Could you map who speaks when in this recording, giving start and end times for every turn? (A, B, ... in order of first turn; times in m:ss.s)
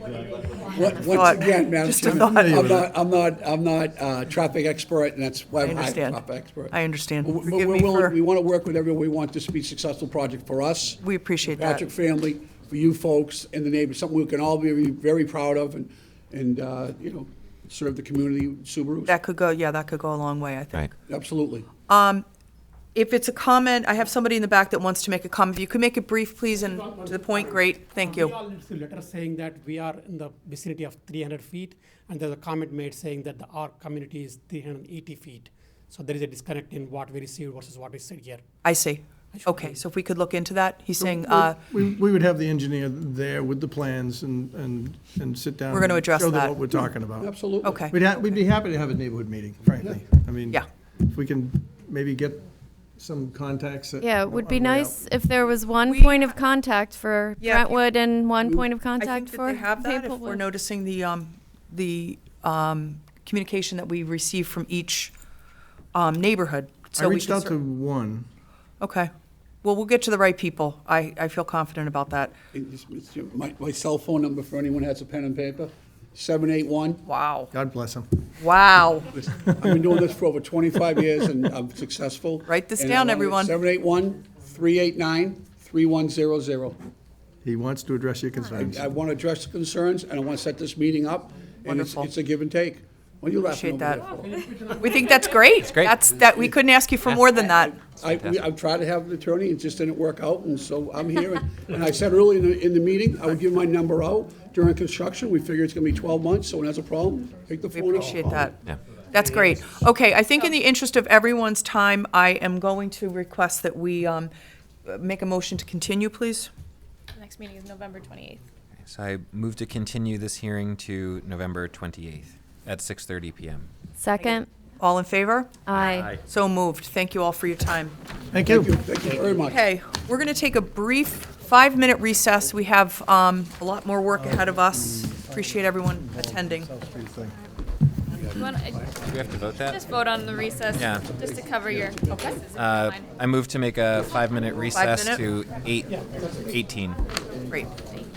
0:00.7-0:11.0 A
0:01.1-0:02.7 B
0:02.2-0:02.9 C
0:05.6-0:08.2 B
0:11.0-0:11.8 B
0:11.6-0:19.2 A
0:19.1-0:20.9 B
0:21.1-0:21.7 A
0:21.9-0:22.2 B
0:23.0-0:28.4 B
0:26.8-0:38.4 D
0:38.6-0:41.6 B
0:39.3-0:39.8 D
0:41.0-0:47.3 C
0:45.7-0:46.6 B
0:47.2-0:47.8 A
0:47.6-0:48.0 B
0:47.9-0:55.0 C
0:54.0-1:00.4 E
0:55.8-0:56.4 B
0:57.4-0:57.8 B
0:58.4-1:05.1 B
1:05.9-1:07.6 B
1:07.0-1:08.3 C
1:08.8-1:09.1 B
1:09.6-1:12.4 B
1:12.5-1:17.0 A
1:17.1-1:17.5 B
1:17.5-1:18.2 C
1:18.4-1:19.1 B
1:19.4-1:19.8 C
1:19.5-1:26.8 A
1:22.5-1:23.5 B
1:27.4-1:28.9 C
1:28.5-1:34.4 A
1:31.7-1:32.1 B
1:33.5-1:34.1 B
1:34.6-1:37.8 B
1:35.6-1:36.0 F
1:37.4-1:48.5 A
1:38.1-1:38.4 F
1:47.7-1:54.3 B
1:54.8-1:56.5 B
1:57.2-1:58.4 G
1:58.8-2:03.7 F
2:04.0-2:04.5 E
2:04.8-2:05.6 B
2:05.7-2:06.1 E
2:05.8-2:06.2 F
2:06.2-2:08.0 B
2:08.3-2:08.7 C
2:08.4-2:09.6 A
2:09.4-2:16.7 B
2:14.2-2:15.3 C
2:15.9-2:17.4 C
2:18.3-2:18.9 G
2:19.1-2:19.8 F
2:19.7-2:23.0 G
2:20.8-2:21.1 F
2:22.5-2:27.0 F
2:24.7-2:25.2 B